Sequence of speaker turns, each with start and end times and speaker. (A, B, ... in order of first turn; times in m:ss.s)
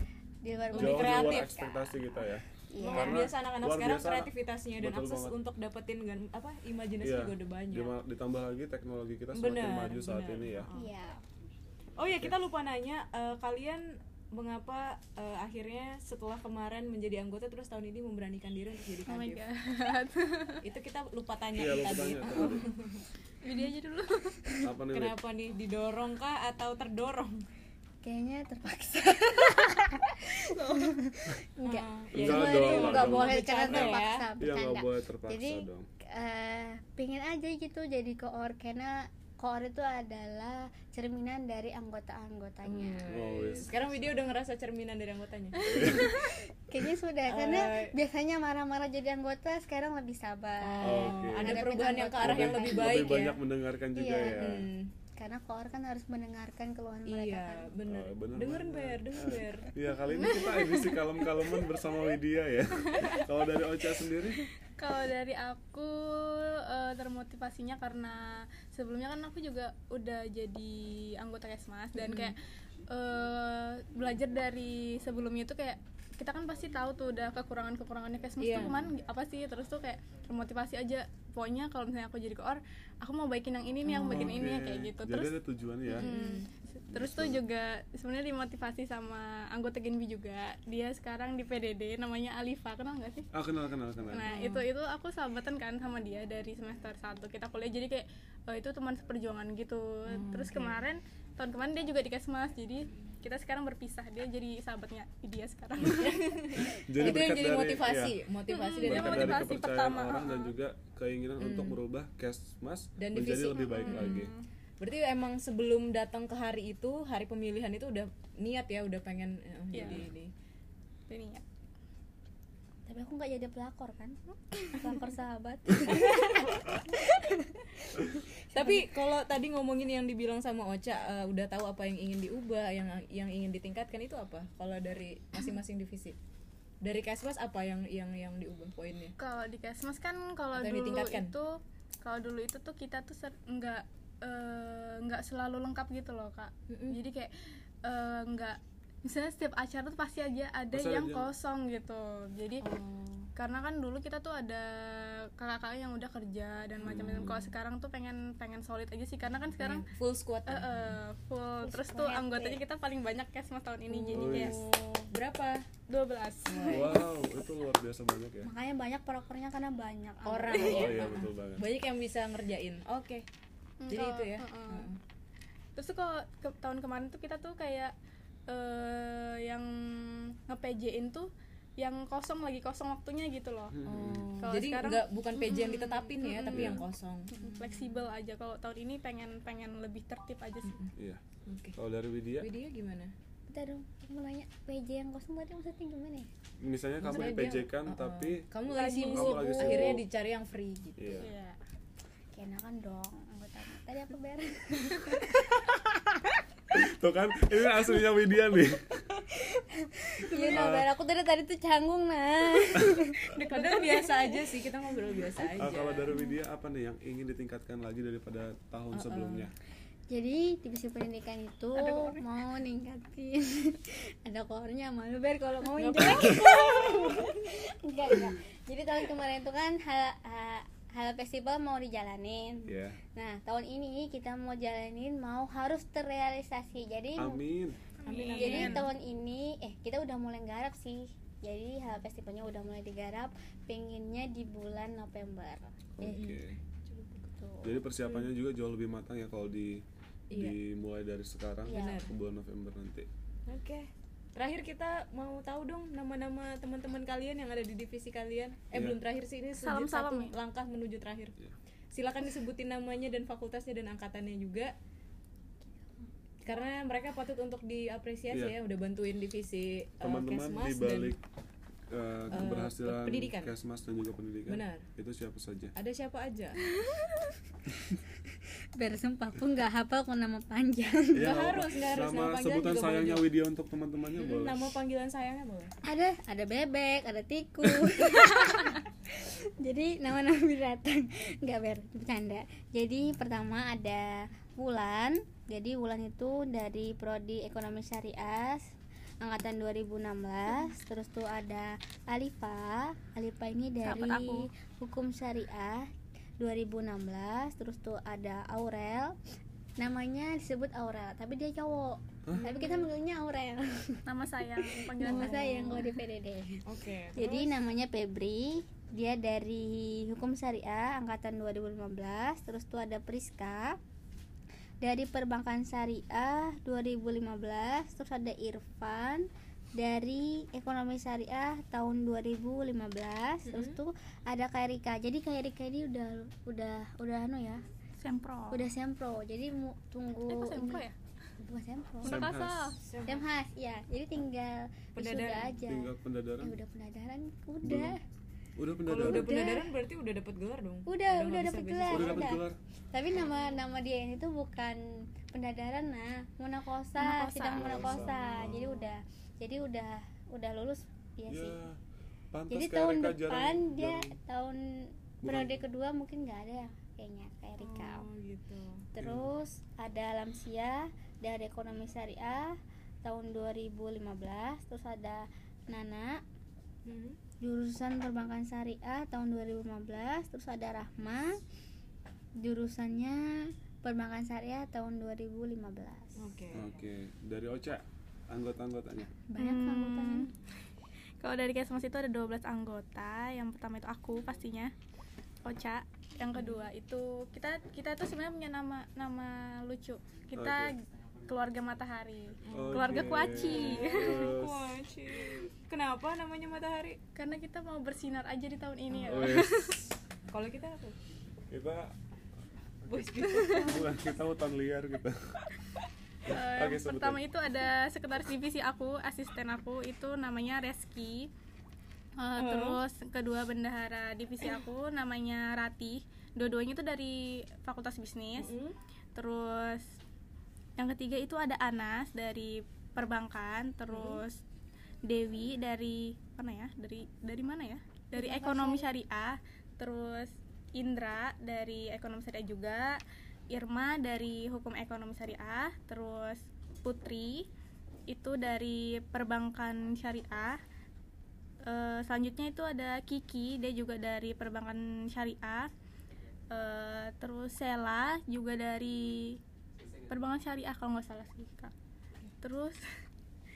0:00.4-0:01.9 A
0:00.7-0:01.5 B
0:00.8-0:05.4 C
0:02.7-0:03.3 A
0:02.8-0:07.9 B
0:07.0-0:10.7 C
0:09.3-0:10.9 B
0:10.7-0:11.2 A
0:12.0-0:19.4 B
0:19.0-0:20.6 D
0:20.6-0:23.0 B
0:21.5-0:22.7 C
0:23.4-0:24.6 D
0:24.6-0:25.2 C
0:24.9-0:27.4 B
0:28.0-0:43.1 A
0:31.6-0:34.3 B
0:32.1-0:35.9 C
0:42.6-0:46.0 B
0:43.1-0:43.8 C
0:45.6-0:46.1 C
0:45.7-0:46.3 D
0:45.8-0:53.3 A
0:47.3-0:47.9 B
0:50.6-0:53.4 B
0:50.8-0:54.7 C
0:53.9-0:54.6 A
0:54.3-0:54.9 B
0:55.2-0:57.7 A
0:57.0-1:00.2 B
0:57.8-1:04.5 C
1:00.1-1:01.1 D
1:04.6-1:25.3 D
1:11.9-1:12.3 B
1:18.4-1:18.9 B
1:23.8-1:24.5 B
1:24.1-1:26.1 C
1:25.9-1:33.3 D
1:25.9-1:26.5 B
1:26.9-1:27.4 C
1:33.3-1:34.4 C
1:34.1-1:46.6 D
1:34.2-1:34.6 B
1:40.1-1:40.8 B
1:45.9-1:49.6 B
1:46.6-1:48.2 C
1:48.5-1:50.5 D
1:48.8-1:54.3 C
1:51.4-1:51.8 B
1:53.0-1:54.3 B
1:53.5-1:54.4 D
1:54.8-2:00.3 B
1:59.7-2:00.0 D
1:59.8-2:00.0 C
2:01.1-2:01.4 D
2:02.9-2:08.9 A
2:05.8-2:06.8 B
2:08.5-2:16.2 B
2:16.8-2:19.1 B
2:19.2-2:27.3 D
2:20.5-2:21.3 B
2:26.7-2:27.0 B
2:27.8-2:32.6 D
2:30.7-2:31.3 C
2:32.6-2:33.3 B
2:33.4-2:39.9 D
2:36.8-2:37.3 B
2:36.8-2:37.5 C
2:39.6-2:41.0 B
2:40.5-2:44.6 D
2:41.6-2:42.6 A
2:43.9-2:45.6 B
2:44.1-2:44.6 C
2:45.9-2:47.0 D
2:46.5-2:47.1 B
2:46.7-2:48.5 C
2:48.4-2:51.2 A
2:50.2-2:53.2 B
2:50.5-2:51.7 C
2:53.8-2:54.9 D
2:53.9-2:55.0 B
2:55.8-2:57.9 D
2:58.5-3:03.8 D
3:03.7-3:04.4 C
3:03.8-3:08.0 B
3:04.4-3:10.8 D
3:06.5-3:06.8 C
3:10.6-3:10.9 B
3:10.9-3:11.2 C
3:11.4-3:11.8 B
3:11.7-3:12.5 C
3:12.4-3:13.1 B
3:13.5-3:16.3 A
3:16.6-3:20.0 C
3:17.0-3:21.2 B
3:18.7-3:19.5 D
3:18.8-3:19.9 A
3:21.0-3:21.3 C
3:21.1-3:21.6 D
3:22.3-3:25.3 A
3:26.7-3:29.0 C
3:29.3-3:34.5 A
3:30.3-3:30.6 B
3:30.5-3:30.9 C
3:32.7-3:33.1 C
3:33.3-3:36.2 B
3:35.4-3:39.5 C
3:38.9-3:39.5 B
3:40.1-3:57.4 A
3:41.8-3:42.2 D
3:45.8-3:47.5 B
3:46.0-3:46.4 C
3:52.6-3:53.0 C
3:57.2-3:57.8 C
3:58.0-3:58.9 D
3:58.0-3:58.9 B
3:58.4-4:05.8 A
4:06.0-4:06.6 C
4:06.0-4:07.3 B
4:07.4-4:07.6 A
4:07.6-4:13.1 C
4:10.3-4:10.6 B
4:11.7-4:12.1 B
4:11.7-4:12.0 A
4:13.5-4:21.3 B
4:18.7-4:19.0 C
4:19.6-4:20.4 D
4:21.9-4:24.7 B
4:26.4-4:31.1 B
4:28.3-4:28.6 C
4:30.0-4:31.2 C
4:31.9-4:35.7 C
4:32.3-4:33.5 B
4:34.5-4:34.9 B
4:35.7-4:36.6 B
4:36.8-4:37.3 A
4:38.8-4:41.5 A
4:41.1-4:44.7 C
4:41.2-4:43.3 B
4:44.2-4:45.7 B
4:45.8-5:09.2 A
5:03.8-5:04.5 D
5:09.8-5:23.8 A
5:12.4-5:12.8 B
5:14.0-5:16.0 D
5:15.0-5:15.8 B
5:16.6-5:17.6 B
5:24.8-5:37.6 A
5:33.5-5:33.8 B
5:38.0-5:38.7 D
5:38.5-5:40.8 A
5:40.3-5:40.9 D
5:41.4-5:42.2 A
5:42.0-5:42.8 D
5:42.1-5:42.7 C
5:42.8-5:43.2 B
5:43.0-5:48.0 A
5:45.0-5:45.5 B
5:45.6-5:46.5 C
5:47.6-5:47.9 C
5:48.6-5:49.3 C
5:48.9-5:52.3 B
5:49.0-5:49.7 A
5:50.9-6:01.6 A
5:51.9-5:52.6 C
5:57.0-5:58.4 D
5:57.5-5:58.7 C
6:01.3-6:01.8 C
6:02.3-6:04.1 C
6:02.5-6:08.1 A
6:05.2-6:05.6 C
6:07.6-6:08.8 B
6:08.9-6:16.2 A
6:09.0-6:09.3 C
6:16.8-6:17.2 B
6:17.4-6:21.4 A
6:22.4-6:26.2 A
6:26.2-6:26.7 B
6:26.5-6:29.1 C
6:29.3-6:30.3 A
6:29.4-6:30.3 D
6:31.2-6:34.7 D
6:35.4-6:44.3 D
6:36.3-6:36.6 B
6:40.3-6:40.7 C
6:42.5-6:47.0 B
6:42.5-6:44.8 C
6:47.1-6:49.9 D
6:49.0-6:49.9 C
6:50.3-6:51.0 B
6:51.5-6:51.9 C
6:52.8-6:55.4 C
6:52.9-6:53.9 B
6:53.3-6:53.7 D
6:56.2-7:01.3 D
6:56.3-6:57.2 C
7:02.2-7:08.5 D
7:02.4-7:02.8 B
7:08.4-7:08.7 B
7:09.1-7:10.0 D
7:10.8-7:14.4 D
7:13.9-7:14.2 B
7:15.0-7:27.5 D
7:18.1-7:18.9 A
7:28.1-7:30.6 D
7:31.6-7:35.7 D
7:36.5-7:39.4 D
7:40.1-7:41.7 D
7:42.4-7:42.8 D